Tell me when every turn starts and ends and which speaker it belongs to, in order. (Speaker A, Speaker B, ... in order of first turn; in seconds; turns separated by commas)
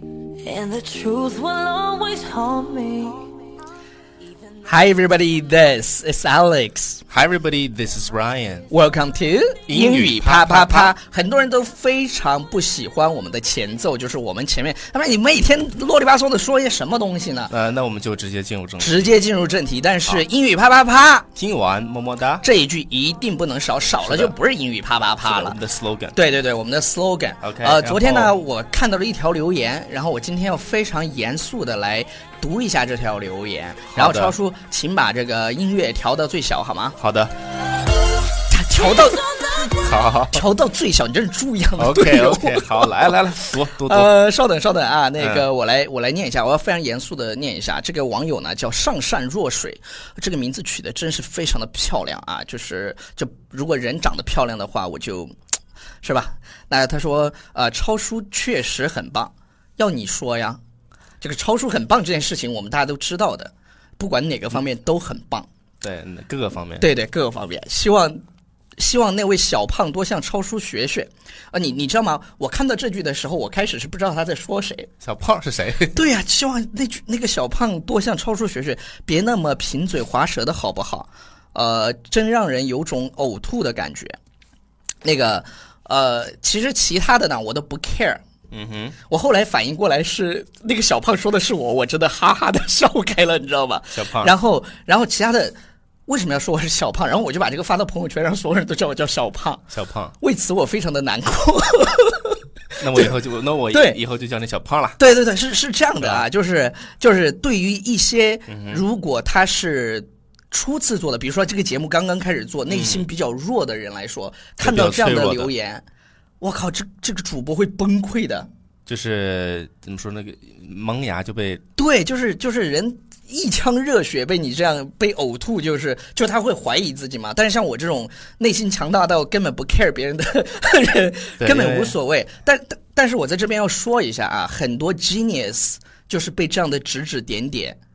Speaker A: 0.4-3.3, Speaker B: 4.6-7.0, Speaker C: 7.1-8.7, Speaker B: 8.7-17.5, Speaker C: 9.7-10.9, Speaker C: 17.5-19.1, Speaker B: 18.8-21.3, Speaker C: 21.4-22.4, Speaker B: 22.4-25.6, Speaker C: 24.0-24.3, Speaker C: 25.2-26.2, Speaker B: 26.1-37.0, Speaker C: 27.4-28.4, Speaker C: 33.9-34.3, Speaker C: 37.0-37.3, Speaker B: 38.5-39.7, Speaker C: 39.7-40.4, Speaker B: 40.3-42.9, Speaker C: 41.8-44.1, Speaker B: 43.8-55.4, Speaker C: 45.2-45.5, Speaker B: 56.0-60.6, Speaker B: 61.2-65.5, Speaker C: 65.8-66.9, Speaker B: 66.8-68.2, Speaker B: 68.8-74.9, Speaker C: 75.0-76.0, Speaker B: 75.9-84.2, Speaker B: 85.0-88.2, Speaker C: 88.5-89.0, Speaker B: 89.1-99.6, Speaker C: 94.0-94.3, Speaker C: 99.7-100.1, Speaker B: 100.2-102.4, Speaker C: 102.8-105.0, Speaker B: 103.7-104.0, Speaker B: 105.0-115.8, Speaker C: 106.0-106.3, Speaker C: 108.5-108.8, Speaker C: 112.7-113.1, Speaker C: 114.6-115.5, Speaker B: 116.4-118.5, Speaker C: 118.9-121.6, Speaker B: 121.8-137.8, Speaker C: 131.4-131.9